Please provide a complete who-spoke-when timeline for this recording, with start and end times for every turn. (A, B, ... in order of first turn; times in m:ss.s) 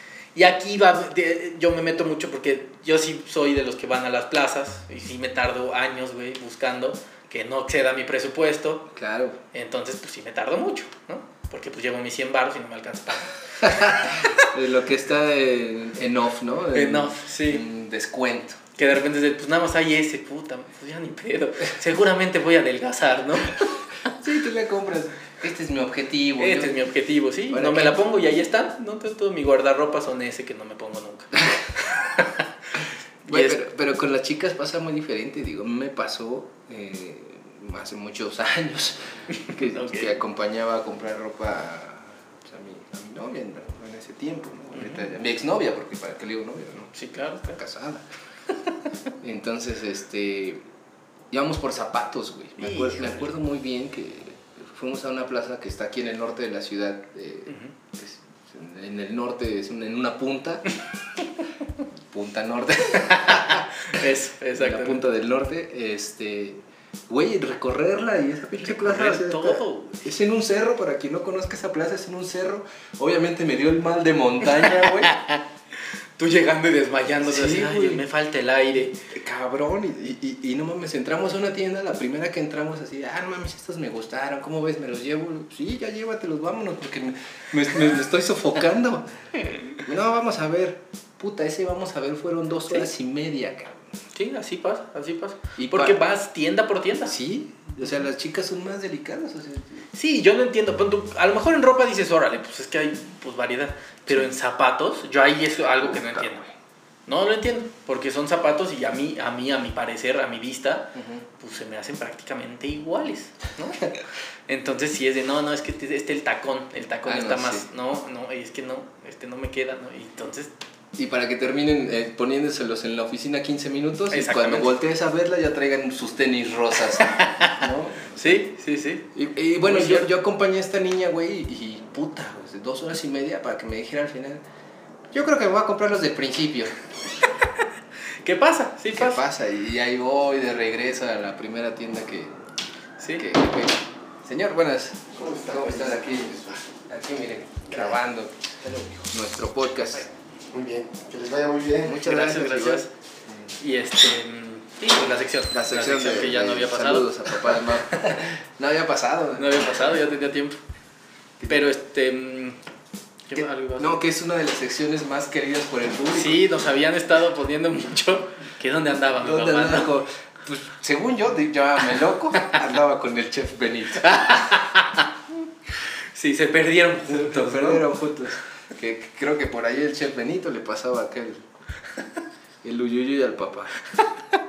0:00.4-0:08.9 A
0:08.9-0:09.4 B
0:09.5-0:14.5 A
0:13.6-0:18.6 B
0:16.7-0:17.6 A
0:18.8-0:23.7 A
0:24.2-0:26.9 B
0:26.4-0:33.6 A
0:27.5-0:28.0 B
0:33.2-0:47.0 B
0:39.4-0:40.1 A
0:44.8-0:45.1 A
0:46.9-0:47.6 A
0:47.5-0:48.0 B
0:49.2-0:50.6 B
0:51.3-1:00.6 B
0:52.6-0:53.2 A
0:57.5-0:57.7 A
1:02.1-1:03.7 B
1:03.1-1:05.0 A
1:04.6-1:15.2 B
1:08.6-1:10.0 A
1:15.0-1:15.4 A
1:16.2-1:19.0 A
1:17.2-1:18.0 B
1:19.1-1:29.1 B
1:29.5-1:29.8 A
1:29.8-1:33.9 B
1:34.1-1:37.2 A
1:35.6-1:36.0 B
1:37.1-1:39.8 B
1:39.9-1:46.4 A
1:45.8-1:46.5 B
1:47.1-1:53.9 A
1:50.9-1:51.2 B
1:54.5-2:00.5 A
1:57.1-1:57.7 B
2:01.0-2:08.5 B
2:04.1-2:04.7 A
2:07.0-2:07.6 A
2:08.2-2:09.1 A
2:09.2-2:14.4 B
2:09.6-2:10.1 A
2:15.1-2:16.8 B
2:18.2-2:19.2 A
2:18.9-2:22.3 B
2:23.0-2:23.3 A
2:23.2-2:28.5 B
2:25.2-2:26.6 C
2:28.6-2:29.1 C
2:29.1-2:30.1 B
2:30.5-2:32.0 C
2:31.8-2:33.5 B
2:32.0-2:32.9 A
2:33.6-2:37.6 A
2:35.5-2:40.0 B
2:39.4-2:40.6 A
2:41.4-2:41.7 B
2:41.5-2:42.6 A
2:43.3-2:44.0 A
2:43.4-2:46.5 B
2:46.1-2:49.9 A
2:49.2-2:54.1 B
2:54.0-2:55.1 A
2:55.8-2:57.9 A
2:57.1-3:01.4 B
3:02.6-3:03.8 B